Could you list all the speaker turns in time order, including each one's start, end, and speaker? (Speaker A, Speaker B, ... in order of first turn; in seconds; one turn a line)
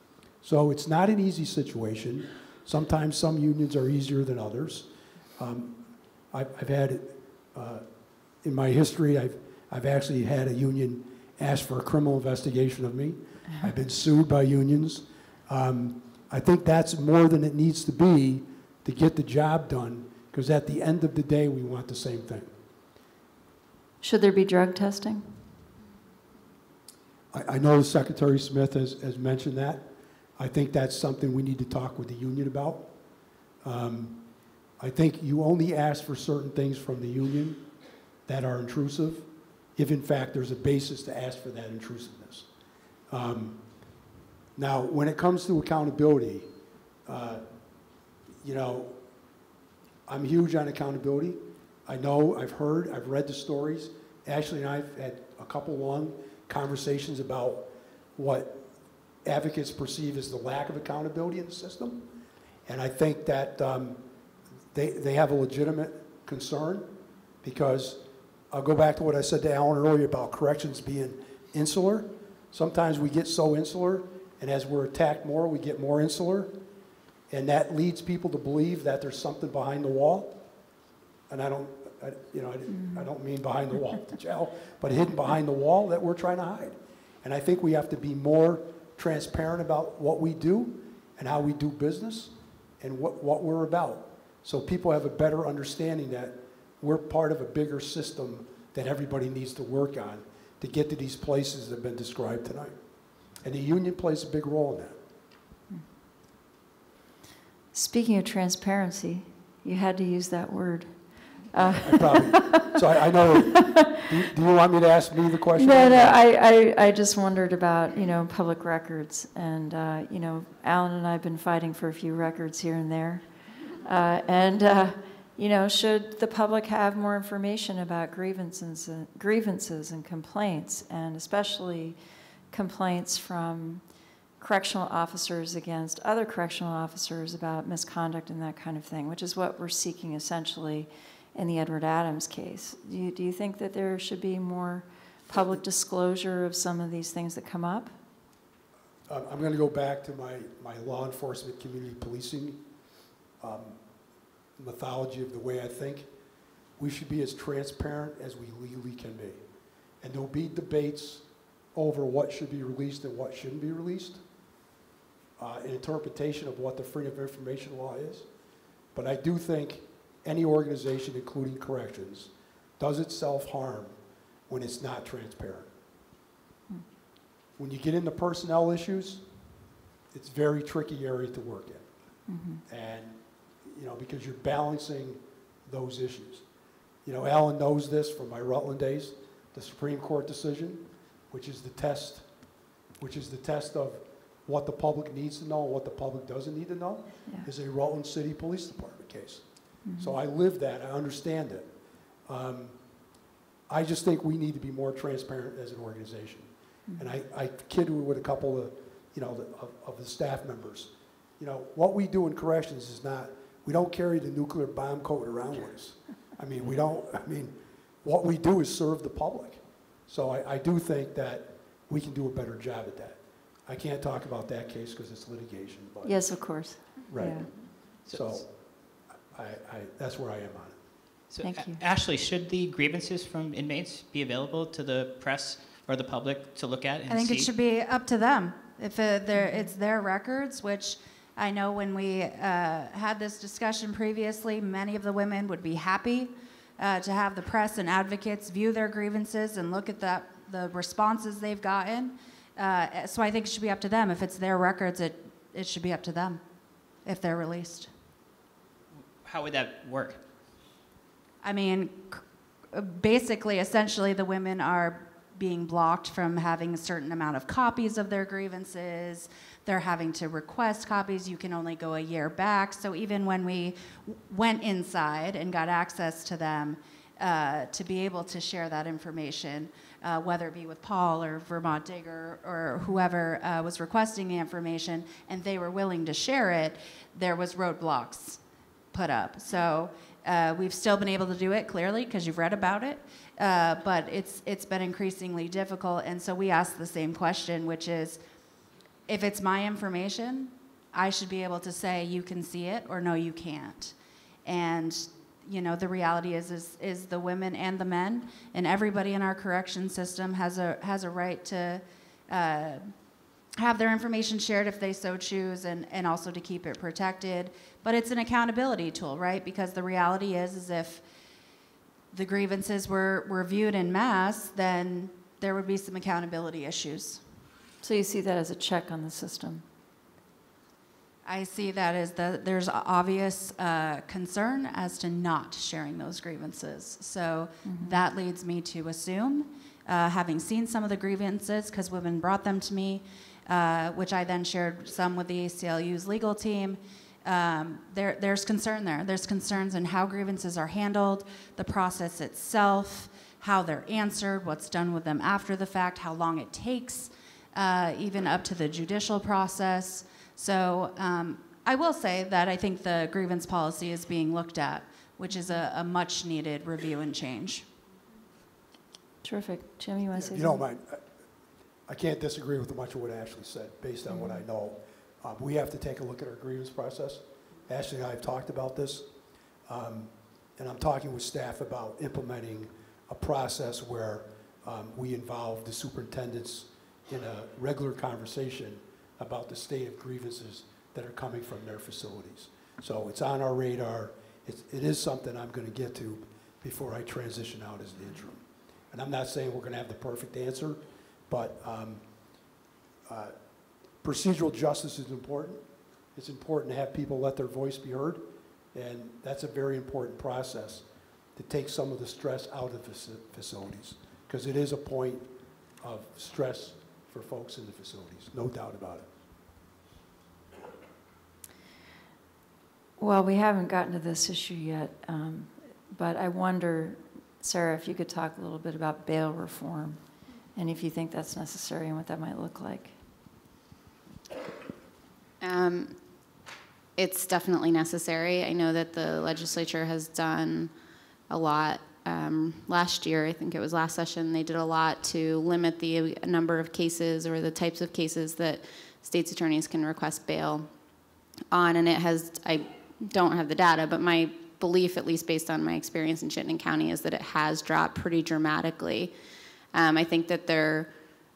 Speaker A: 0.4-5.8
Speaker A: 6.3-7.8
Speaker A: 8.4-22.5
Speaker B: 24.0-25.3
Speaker A: 27.3-32.9
Speaker A: 33.6-34.2
Speaker A: 34.8-37.7
Speaker A: 38.3-42.5
Speaker A: 43.1-43.6
Speaker A: 44.5-46.5
Speaker A: 47.0-47.4
Speaker A: 48.4-49.0
Speaker A: 50.1-58.6
Speaker A: 59.2-62.1
Speaker A: 62.6-64.0
Speaker A: 64.7-76.6
Speaker A: 77.3-80.4
Speaker A: 81.3-102.8
Speaker B: 82.7-83.1
Speaker A: 103.4-105.0
Speaker B: 107.7-110.9
Speaker B: 111.5-112.6
Speaker A: 111.6-116.2
Speaker B: 113.5-113.8
Speaker B: 115.6-123.2
Speaker B: 123.8-132.0
Speaker B: 132.5-133.8
Speaker B: 134.4-147.9
Speaker A: 149.1-152.6
Speaker A: 153.4-153.8
Speaker A: 154.6-156.1
Speaker A: 156.8-159.4
Speaker A: 160.0-164.2
Speaker A: 165.4-168.3
Speaker A: 168.9-173.9
Speaker A: 174.5-175.7
Speaker A: 177.6-179.2
Speaker A: 180.1-181.9
Speaker B: 182.3-182.6
Speaker A: 182.7-186.4
Speaker A: 187.0-192.3
Speaker A: 193.0-199.4
Speaker B: 199.8-200.2
Speaker A: 200.0-201.7
Speaker A: 202.3-202.7
Speaker A: 203.7-228.5
Speaker B: 226.0-227.5
Speaker C: 228.0-228.4
Speaker A: 229.3-230.8
Speaker C: 231.3-237.5
Speaker B: 231.4-231.8
Speaker D: 237.1-256.4
Speaker D: 257.0-257.9
Speaker C: 259.2-260.2
Speaker D: 261.4-262.2
Speaker D: 262.7-288.4
Speaker D: 288.9-298.2
Speaker D: 299.1-312.9
Speaker D: 313.6-321.0
Speaker D: 322.1-327.2
Speaker B: 327.8-329.6
Speaker D: 331.2-367.6
Speaker B: 337.6-338.0
Speaker B: 365.3-365.6
Speaker B: 369.2-370.6
Speaker A: 370.1-371.0
Speaker A: 371.9-379.1
Speaker B: 374.1-374.4
Speaker A: 379.7-402.0
Speaker A: 403.1-403.3
Speaker A: 404.0-405.6
Speaker A: 406.1-415.3
Speaker A: 415.8-419.1
Speaker B: 423.0-430.0
Speaker B: 430.5-432.9
Speaker E: 435.4-436.0
Speaker E: 437.0-440.7
Speaker E: 441.3-450.7
Speaker E: 451.5-459.1
Speaker E: 459.7-460.9